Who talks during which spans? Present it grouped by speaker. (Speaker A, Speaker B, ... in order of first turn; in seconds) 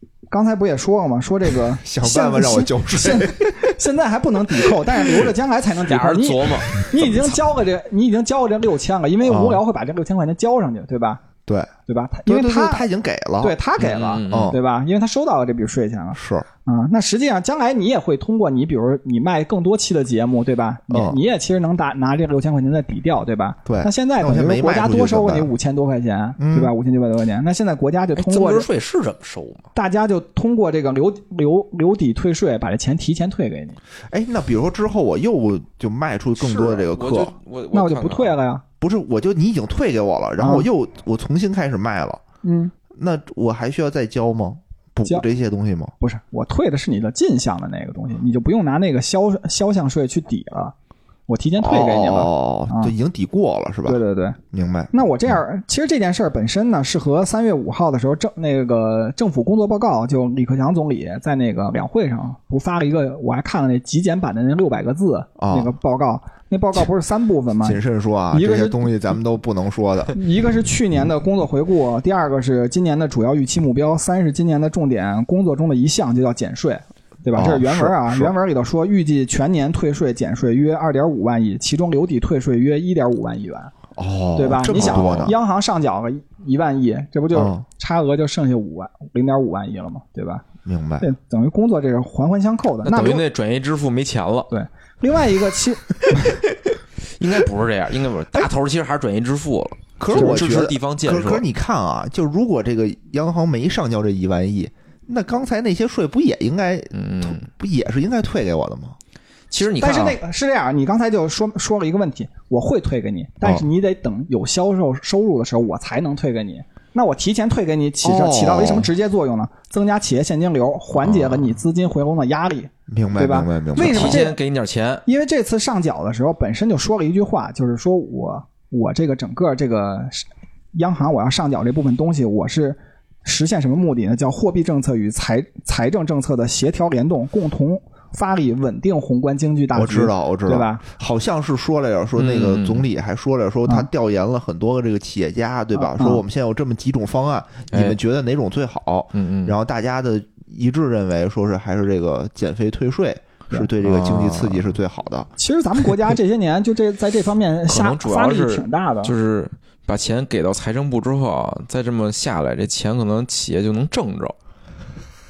Speaker A: 0.3-11.2, 11.9-12.9, 13.4-28.7, 29.7-33.8, 37.7-38.6, 40.4-40.7, 42.4-42.7, 46.0-50.7, 51.3-52.9, 53.9-54.4, 54.9-67.8, 68.3-68.9, 70.1-83.7, 84.3-90.5, 91.0-93.2, 94.5-96.4, 100.1-100.4, 109.8-124.4, 125.0-140.8, 145.7-146.2, 155.4-159.1
Speaker B: 1.8-3.7, 4.7-5.3, 9.2-9.6, 11.4-11.7, 12.2-13.6, 14.3-14.6, 16.1-16.5, 20.9-21.2, 23.6-25.5, 26.4-26.7, 34.1-37.3, 38.8-42.2, 42.9-45.9, 51.6-54.0, 54.5-54.9, 65.4-65.7, 67.6-70.2, 77.3-78.3, 84.0-85.3, 87.3-87.6, 90.6-91.1, 100.0-109.0, 118.0-118.9, 121.0-121.4, 122.9-124.2, 139.7-155.3
Speaker C: 5.8-7.0, 13.8-14.6, 28.1-29.7, 36.4-38.4, 92.8-94.5, 97.0-101.5, 106.9-107.5, 109.5-110.2, 123.8-125.0, 142.2-142.8, 147.7-148.0, 149.1-149.6, 153.8-154.6, 157.7-164.3